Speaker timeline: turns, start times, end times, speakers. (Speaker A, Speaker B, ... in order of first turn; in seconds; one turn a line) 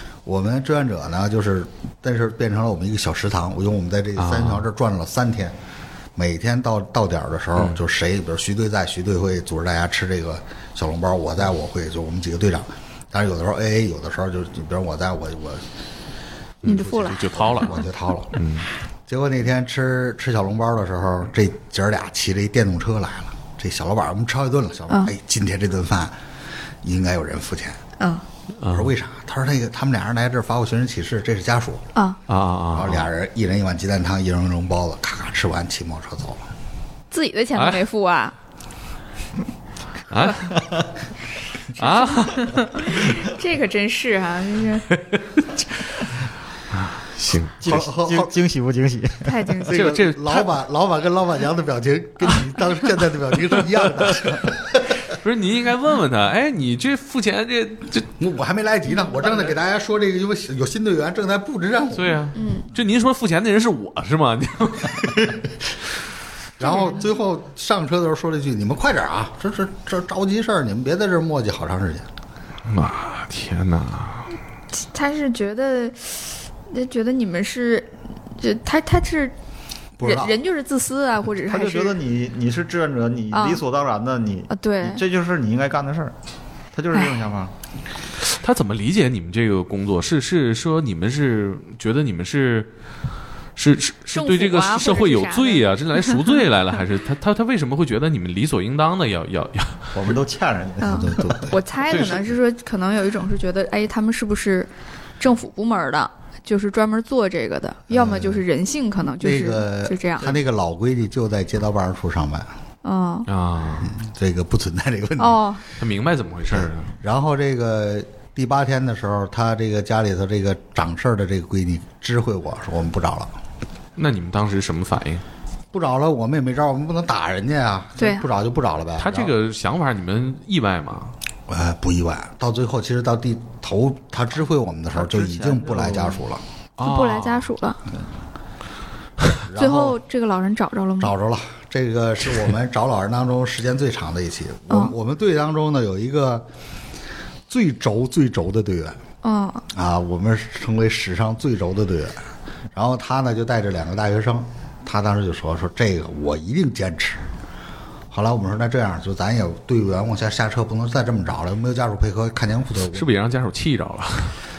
Speaker A: 0.2-5.5
Speaker B: 4.2-4.7
Speaker A: 6.2-15.7
Speaker A: 16.6-18.4
Speaker B: 16.6-18.7
Speaker C: 16.6-17.8
Speaker A: 19.1-26.2
Speaker A: 26.8-27.8
Speaker C: 28.0-28.2
Speaker B: 28.6-28.9
Speaker A: 28.6-31.9
Speaker B: 32.3-33.1
Speaker A: 32.7-36.5
Speaker C: 37.1-38.3
Speaker B: 37.5-37.8
Speaker B: 40.1-40.7
Speaker D: 40.5-40.8
Speaker B: 41.8-42.9
Speaker C: 41.8-45.0
Speaker B: 46.7-47.8
Speaker D: 47.6-49.4
Speaker A: 47.6-48.3
Speaker C: 49.2-50.0
Speaker A: 49.7-55.0
Speaker B: 49.7-50.6
Speaker B: 53.8-54.3
Speaker B: 55.1-58.1
Speaker A: 58.2-62.2
Speaker B: 61.9-65.4
Speaker C: 62.3-62.7
Speaker A: 66.6-72.1
Speaker C: 66.6-67.0
Speaker B: 72.7-74.3
Speaker C: 74.7-79.3
Speaker A: 80.0-80.4
Speaker C: 80.0-82.0
Speaker D: 81.5-86.1
Speaker C: 83.3-83.6
Speaker C: 84.5-85.0
Speaker D: 86.7-87.5
Speaker B: 88.3-92.7
Speaker B: 93.5-100.1
Speaker C: 94.1-96.4
Speaker D: 99.9-101.5
Speaker C: 100.8-110.4
Speaker A: 100.8-101.6
Speaker B: 101.8-102.3
Speaker A: 107.9-108.4
Speaker A: 109.2-112.5
Speaker C: 112.8-113.3
Speaker B: 113.3-114.0
Speaker A: 113.8-115.4
Speaker C: 115.2-115.6
Speaker B: 115.8-116.9
Speaker A: 116.5-123.3
Speaker B: 124.0-125.2
Speaker A: 125.7-129.3
Speaker C: 128.0-128.2
Speaker B: 129.0-131.1
Speaker A: 131.5-136.4
Speaker D: 134.9-136.2
Speaker B: 136.8-137.5
Speaker C: 136.8-137.8
Speaker A: 139.4-140.0
Speaker C: 139.6-141.1
Speaker A: 141.0-146.4
Speaker C: 144.7-144.9
Speaker A: 147.5-149.0
Speaker C: 149.2-149.6
Speaker A: 149.7-157.2
Speaker A: 158.1-163.1
Speaker B: 162.9-164.4